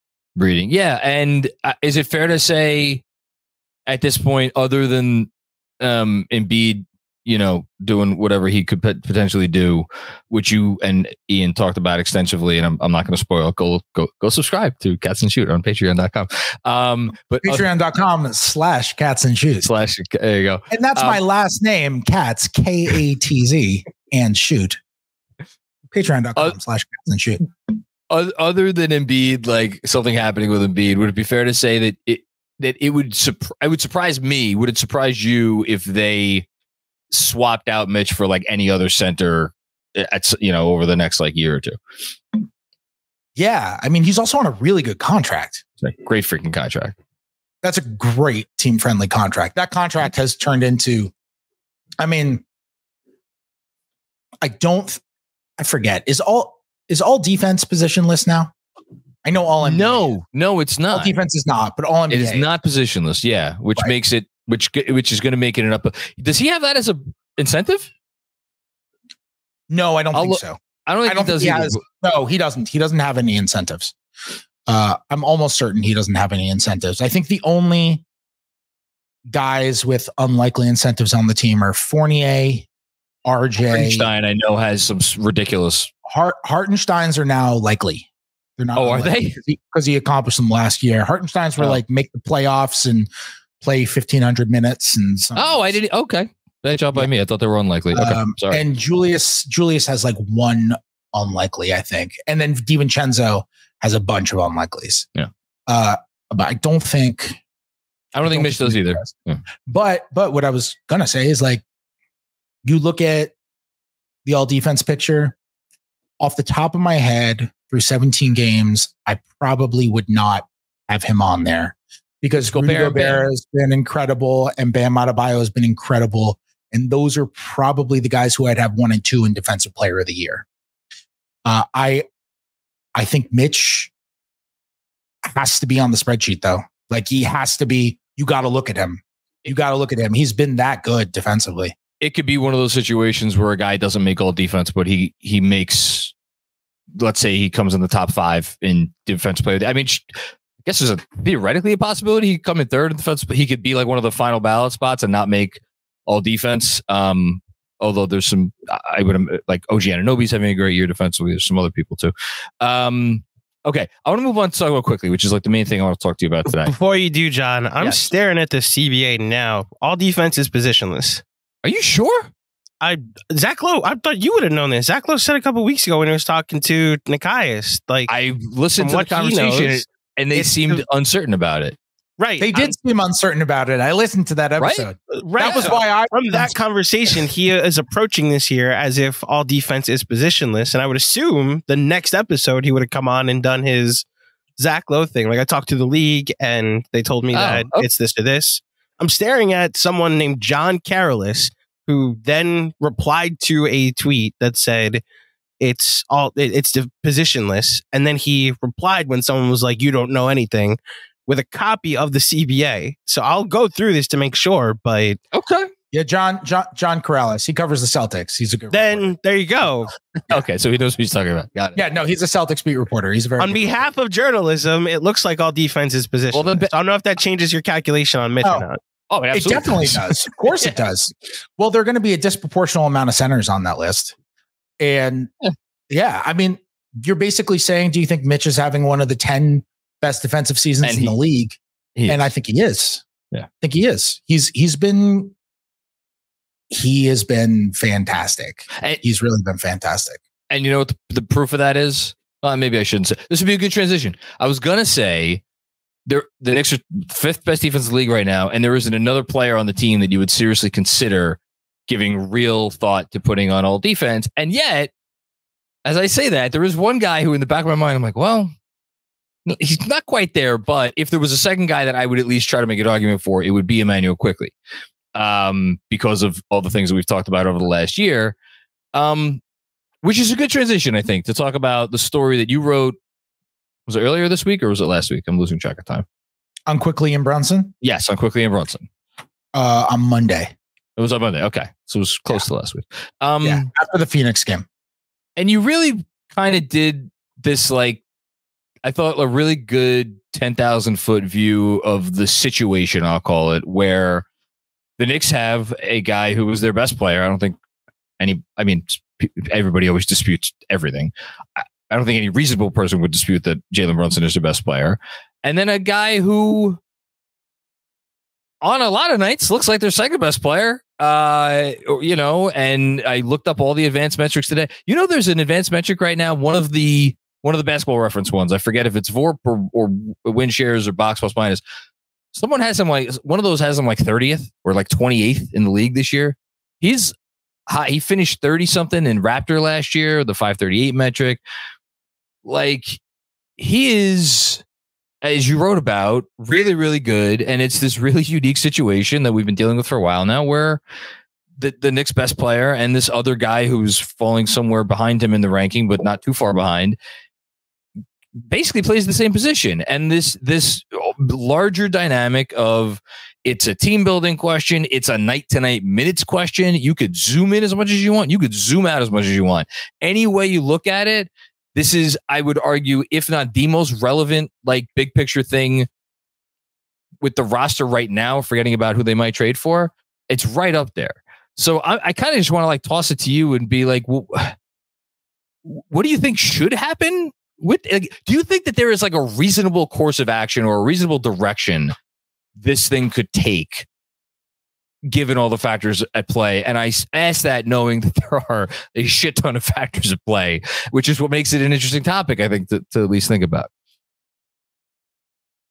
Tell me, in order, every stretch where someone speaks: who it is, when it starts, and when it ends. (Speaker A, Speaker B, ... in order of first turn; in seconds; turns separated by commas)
Speaker A: 0.3-3.0, Speaker A: 3.9-5.3, Speaker A: 5.8-17.6, Speaker B: 17.4-19.7, Speaker A: 19.6-21.2, Speaker B: 20.7-24.8, Speaker B: 25.9-27.4, Speaker A: 28.1-36.5, Speaker A: 37.1-41.8, Speaker B: 43.4-45.6, Speaker A: 45.8-46.9, Speaker B: 47.6-51.1, Speaker B: 52.0-52.4, Speaker B: 54.4-55.0, Speaker B: 55.6-58.5, Speaker B: 59.2-60.1, Speaker A: 59.6-61.1, Speaker B: 60.9-62.5, Speaker A: 62.1-67.9, Speaker B: 69.7-73.9, Speaker A: 70.1-71.8, Speaker B: 74.7-78.0, Speaker B: 79.3-82.7, Speaker B: 83.2-84.1, Speaker A: 83.6-85.9, Speaker B: 86.0-88.1, Speaker B: 88.6-93.1, Speaker A: 88.8-89.4, Speaker B: 93.6-95.8, Speaker A: 95.3-98.6, Speaker B: 97.9-105.1, Speaker B: 105.7-107.4, Speaker A: 108.1-109.4, Speaker B: 108.2-109.1, Speaker B: 109.7-111.6, Speaker B: 112.6-113.3, Speaker B: 114.2-115.3, Speaker B: 116.2-130.4, Speaker A: 122.4-123.2, Speaker B: 131.4-132.0, Speaker B: 132.9-133.9, Speaker B: 135.2-141.8, Speaker A: 142.0-146.1, Speaker A: 147.0-166.7, Speaker C: 166.6-171.2, Speaker A: 167.8-168.1, Speaker A: 171.6-172.3, Speaker C: 172.8-178.1, Speaker A: 178.1-181.8, Speaker C: 178.8-180.8, Speaker C: 182.2-182.7, Speaker B: 182.4-186.6, Speaker A: 184.6-184.9, Speaker C: 185.2-194.0, Speaker C: 194.6-205.0, Speaker A: 197.3-197.8, Speaker C: 205.6-215.2, Speaker A: 215.3-215.7, Speaker B: 215.9-219.1, Speaker C: 218.7-219.9, Speaker A: 220.3-221.8, Speaker B: 221.8-223.8, Speaker C: 223.4-228.8, Speaker A: 226.3-226.7, Speaker A: 229.1-230.8, Speaker B: 229.3-234.1, Speaker B: 234.8-235.3, Speaker B: 235.9-243.0, Speaker A: 240.8-241.1, Speaker A: 242.0-242.2, Speaker B: 243.6-245.3, Speaker B: 246.7-250.2, Speaker A: 250.5-255.4, Speaker A: 256.1-264.9, Speaker A: 265.8-268.5, Speaker A: 269.4-274.5, Speaker A: 275.1-278.3, Speaker A: 278.9-279.4, Speaker A: 280.0-283.0, Speaker A: 283.9-286.0, Speaker B: 286.7-287.7, Speaker A: 287.8-288.9, Speaker B: 289.5-290.5, Speaker A: 291.0-293.7, Speaker B: 293.4-294.7, Speaker A: 295.4-298.0, Speaker A: 298.8-304.2, Speaker A: 305.0-307.6, Speaker A: 308.2-316.8, Speaker A: 318.6-331.6, Speaker A: 332.3-337.1, Speaker A: 337.7-341.4, Speaker A: 342.4-343.0, Speaker A: 343.6-344.6, Speaker A: 345.2-350.8, Speaker A: 351.6-357.0, Speaker A: 358.5-375.9, Speaker A: 377.2-384.6, Speaker A: 385.6-391.9, Speaker A: 392.6-393.9, Speaker A: 395.1-403.7